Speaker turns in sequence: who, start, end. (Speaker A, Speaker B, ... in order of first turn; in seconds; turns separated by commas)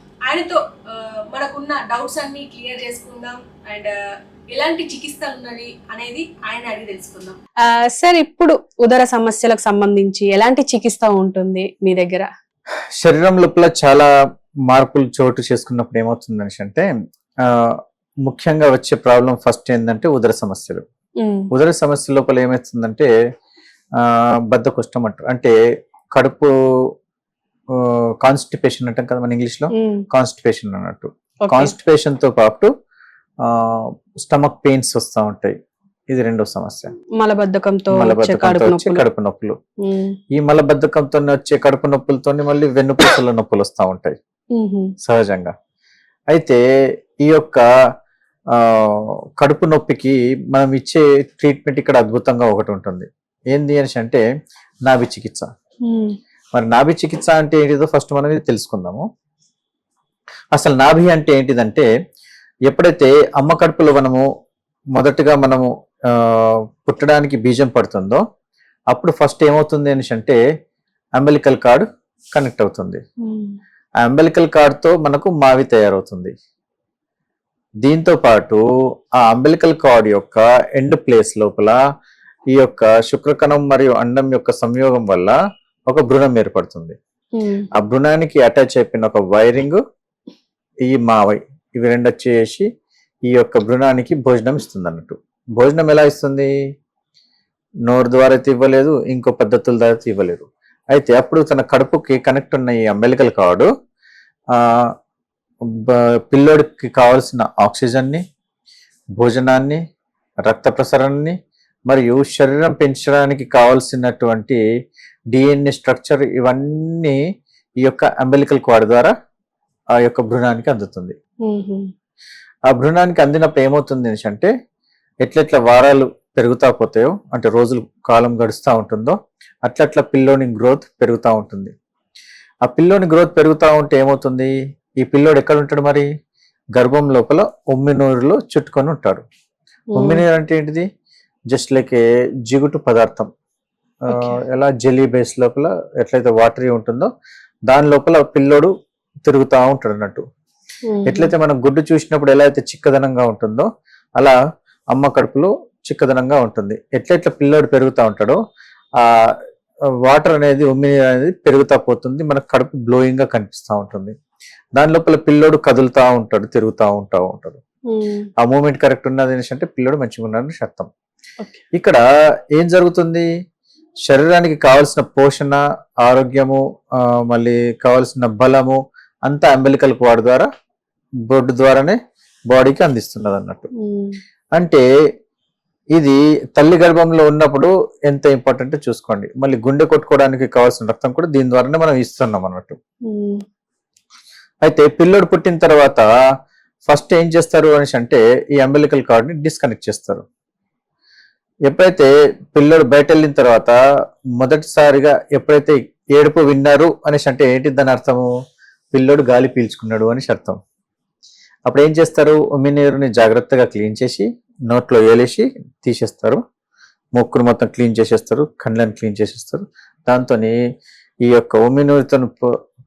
Speaker A: 0.3-4.0, Speaker A: 4.5-7.4, Speaker B: 8.0-12.3, Speaker C: 13.0-14.1, Speaker C: 14.7-16.9, Speaker C: 17.5-17.7, Speaker C: 18.2-20.8, Speaker B: 21.2-21.5, Speaker C: 21.5-23.1, Speaker C: 24.0-25.5, Speaker C: 26.1-26.5, Speaker C: 28.2-32.7, Speaker B: 29.8-30.0, Speaker B: 31.4-31.7, Speaker C: 33.5-35.5, Speaker C: 36.1-36.9, Speaker B: 37.2-39.0, Speaker C: 37.9-39.6, Speaker B: 39.8-40.1, Speaker C: 40.3-44.2, Speaker B: 44.5-44.9, Speaker C: 45.0-45.5, Speaker C: 46.3-46.6, Speaker C: 47.2-47.7, Speaker C: 48.5-54.2, Speaker C: 54.9-55.5, Speaker B: 55.9-56.1, Speaker C: 56.5-59.0, Speaker C: 60.5-61.9, Speaker C: 62.7-64.2, Speaker C: 64.9-68.2, Speaker C: 68.9-70.4, Speaker C: 71.2-73.0, Speaker B: 73.2-73.5, Speaker C: 74.0-76.3, Speaker C: 77.8-78.6, Speaker C: 79.2-81.8, Speaker C: 82.5-85.3, Speaker C: 85.9-87.0, Speaker B: 87.4-87.6, Speaker C: 87.8-89.8, Speaker C: 90.9-92.7, Speaker C: 93.3-96.5, Speaker C: 97.9-103.7, Speaker C: 104.5-104.9, Speaker C: 105.9-108.2, Speaker C: 109.2-109.8, Speaker C: 110.4-111.3, Speaker C: 111.9-114.6, Speaker C: 115.3-117.2, Speaker C: 117.8-119.1, Speaker C: 120.0-121.2, Speaker B: 121.5-121.9, Speaker C: 122.7-124.5, Speaker C: 125.2-131.7, Speaker C: 132.7-136.1, Speaker C: 136.8-139.2, Speaker B: 139.9-140.2, Speaker C: 140.0-140.8, Speaker C: 141.5-143.3, Speaker B: 144.1-144.4, Speaker C: 144.1-147.1, Speaker C: 147.7-148.7, Speaker C: 149.2-150.2, Speaker B: 150.9-151.3, Speaker C: 151.1-154.3, Speaker C: 154.9-158.4, Speaker C: 159.0-159.3, Speaker C: 160.1-164.1, Speaker C: 164.8-167.6, Speaker B: 167.9-168.3, Speaker C: 168.4-170.9, Speaker C: 171.7-172.0, Speaker C: 172.6-173.3, Speaker C: 174.1-176.6, Speaker C: 177.1-180.5, Speaker C: 181.3-182.0, Speaker C: 182.5-183.7, Speaker B: 183.8-184.2, Speaker C: 184.6-184.8, Speaker C: 185.9-192.8, Speaker B: 193.1-193.4, Speaker C: 194.7-196.1, Speaker C: 196.9-200.2, Speaker C: 201.7-203.8, Speaker C: 204.4-208.3, Speaker C: 208.9-210.6, Speaker C: 211.7-216.4, Speaker C: 217.2-220.6, Speaker C: 221.3-222.5